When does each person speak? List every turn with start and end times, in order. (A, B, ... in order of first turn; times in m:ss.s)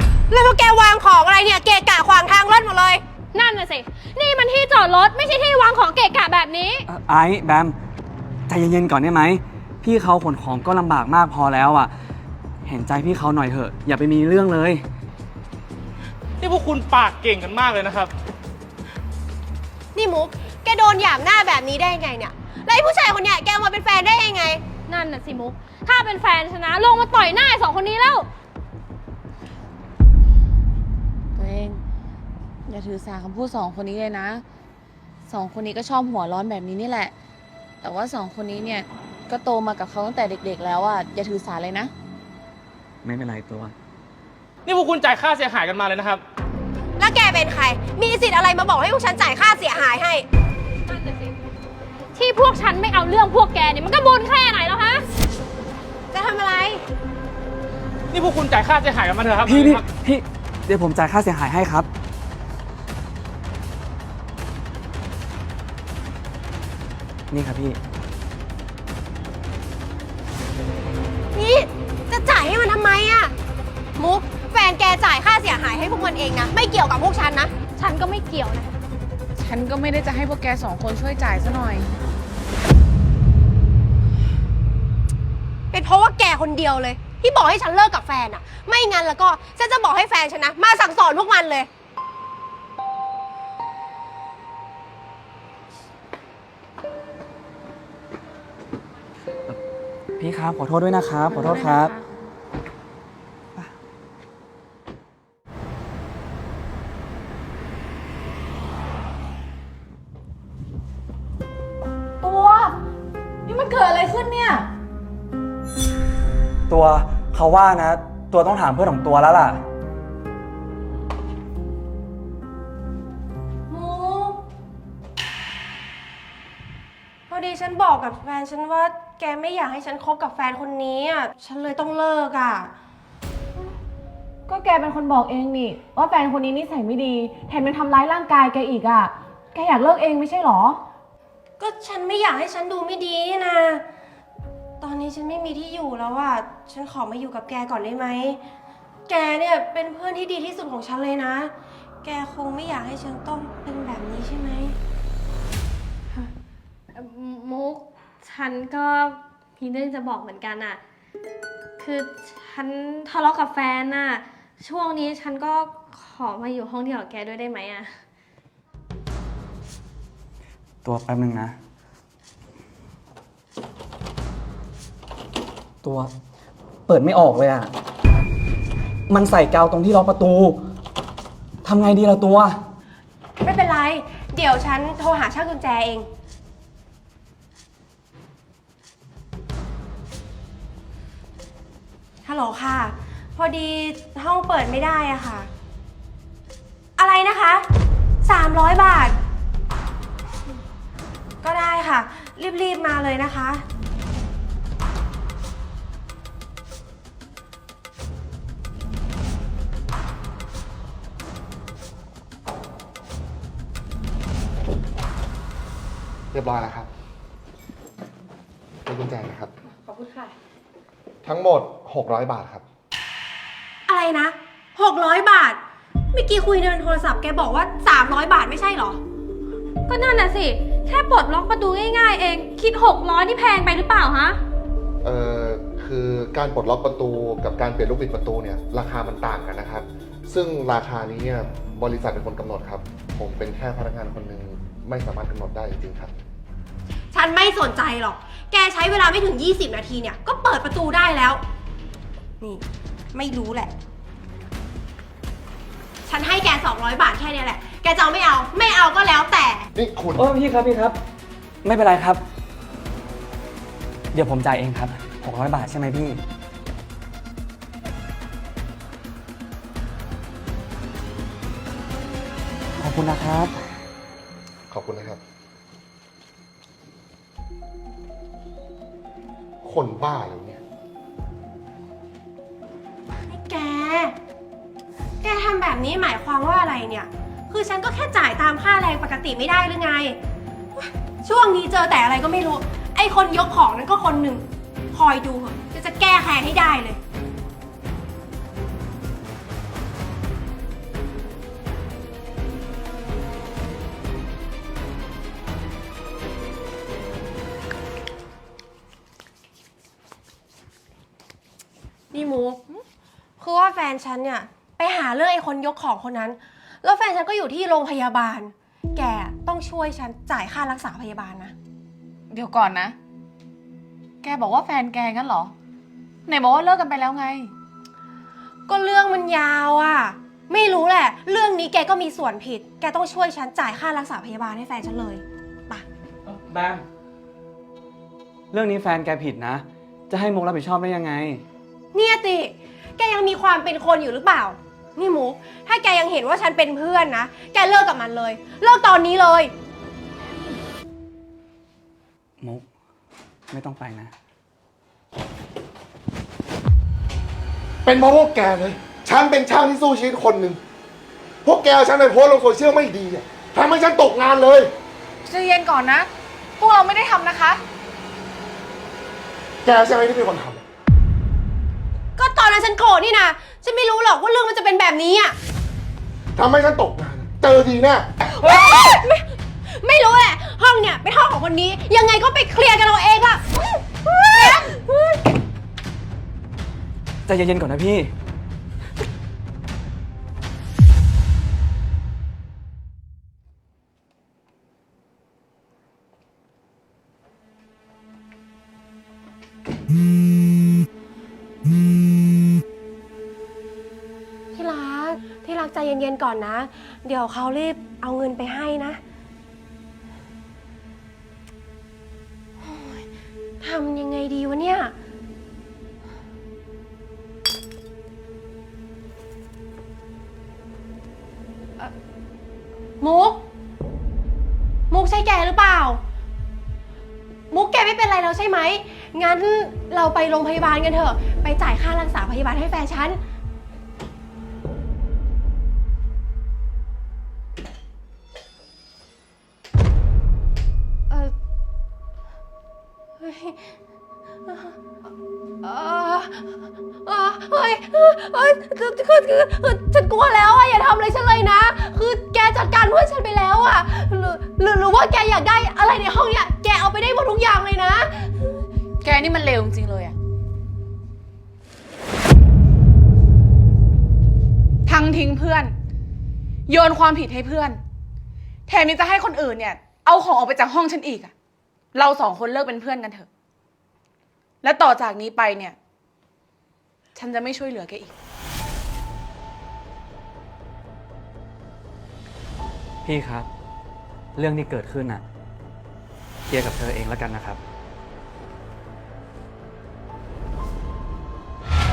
0:00.3-0:03.0 A
0:03.3-0:06.8 B
0:06.9-0:07.7 C
0:08.5-0:11.9 C
0:12.6-0:14.8 C
0:16.4-0:18.1 D
0:19.9-0:24.6 A
0:24.9-0:28.3 B
0:31.3-0:31.8 E
0:32.7-0:34.4 E
0:35.3-0:37.1 E
0:37.8-0:41.9 E
0:43.0-0:43.7 C
0:44.6-0:46.2 D
0:47.0-0:50.2 A
0:52.1-0:55.0 B
0:56.1-0:56.8 A
0:58.1-0:59.8 D
0:59.4-1:01.9 C
1:07.3-1:07.8 C
1:11.3-1:13.3 A
1:14.0-1:17.5 A
1:17.8-1:18.7 B
1:19.4-1:21.9 E
1:25.7-1:31.7 A
1:40.2-1:41.9 C
1:41.3-1:42.1 E
1:52.2-1:52.7 F
1:53.4-1:54.7 F
1:56.7-1:59.6 C
2:03.7-2:04.4 A
2:07.3-2:12.7 A
2:14.5-2:20.8 F
2:21.6-2:23.8 A
2:24.8-2:28.4 A
2:29.1-2:31.5 A
2:32.0-2:34.8 A
2:36.9-2:40.8 B
2:41.8-2:47.9 B
2:50.8-2:51.5 C
2:55.8-2:56.1 C
2:56.9-2:57.7 C
2:59.1-3:00.6 C
3:01.6-3:02.6 C
3:03.4-3:06.1 A
3:12.2-3:15.5 A
3:17.0-3:17.6 A
3:18.2-3:19.2 A
3:21.4-3:23.6 A
3:36.3-3:36.9 G
3:38.8-3:39.5 G
3:41.2-3:42.6 G
3:43.9-3:45.6 A
3:46.1-3:49.0 A
3:49.9-3:54.4 B
3:55.0-4:06.1 G
4:07.1-4:11.4 A
4:12.4-4:13.7 A
4:16.0-4:19.7 A
4:19.7-4:20.3 G
4:20.1-4:21.0 C
4:21.6-4:22.2 C
4:24.1-4:26.2 C
4:32.8-4:33.5 C
4:34.7-4:35.2 G
4:39.6-4:40.6 G
4:43.3-4:44.1 A
4:45.2-4:50.2 A
4:50.8-4:57.0 A
5:12.1-5:12.6 A
5:13.4-5:21.5 A
5:22.3-5:23.0 E
5:24.2-5:25.5 E
5:26.2-5:27.5 E
5:28.7-5:35.8 A
5:36.4-5:36.8 C
5:38.5-5:41.4 C
5:41.9-5:49.5 A
5:53.5-5:54.1 C
5:57.8-6:00.6 G
6:01.4-6:04.7 G
6:05.2-6:07.6 E
6:09.6-6:10.6 G
6:12.2-6:15.4 A
6:16.4-6:18.1 G
6:18.4-6:25.2 A
6:27.2-6:28.1 C
6:44.5-6:49.0 A
6:52.6-6:53.0 A
6:53.6-6:54.9 A
7:03.0-7:03.4 A
7:04.9-7:06.0 A
7:07.5-7:13.2 A
7:23.2-7:23.6 A
7:24.5-7:24.7 A
7:25.6-7:26.5 A
7:27.0-7:38.6 A
7:39.0-7:40.2 E
7:44.8-7:45.7 E
7:46.7-7:47.8 E
7:48.7-7:51.3 E
7:51.9-7:53.3 E
7:54.6-7:55.8 E
7:57.1-7:58.1 E
8:03.0-8:03.5 C
8:04.4-8:05.2 C
8:06.5-8:07.6 C